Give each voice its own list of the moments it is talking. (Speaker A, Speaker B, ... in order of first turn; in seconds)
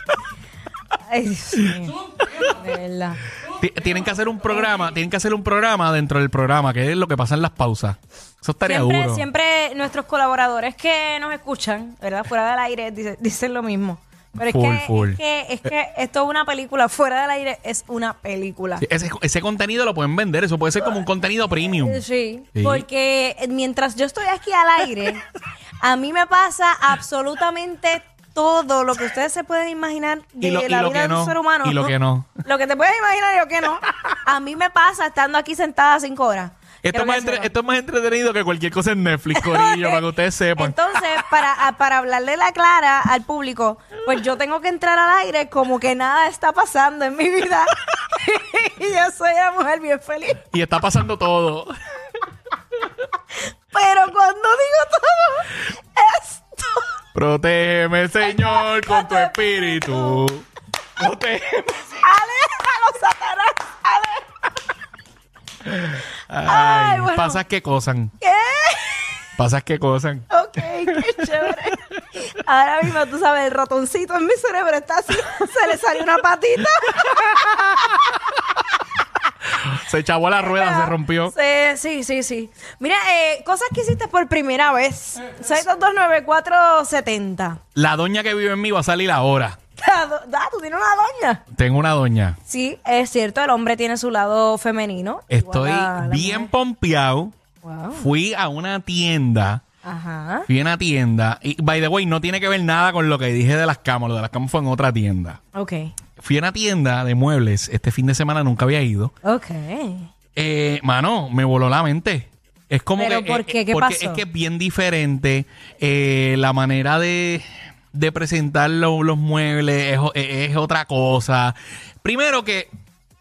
Speaker A: 1.1-3.2, 8.6-18.8, 21.8-25.3, 25.8-31.9, 32.4-37.5, 39.3-40.0, 40.6-50.4, 53.7-56.9, 58.2-60.3, 62.0-64.3, 66.5-67.4, 68.2-69.2, 70.3-78.2, 80.4-87.6, 89.8-91.4, 92.5-96.5, 97.6-98.1, 99.8-100.5, 105.5-105.9, 109.2-110.1, 113.0-114.2
Speaker B: 3.4-9.2, 14.4-15.2, 18.8-22.0, 22.6-22.8, 30.4-32.4, 36.8-41.0, 50.5-51.7, 57.1-60.4, 61.0-62.0, 65.7-68.1, 69.4-70.3, 70.9-71.5, 79.5-81.3, 87.7-89.6, 91.5-92.4, 95.3-97.3, 97.9-99.6, 100.5-105.4, 106.2-109.1, 110.3-122.7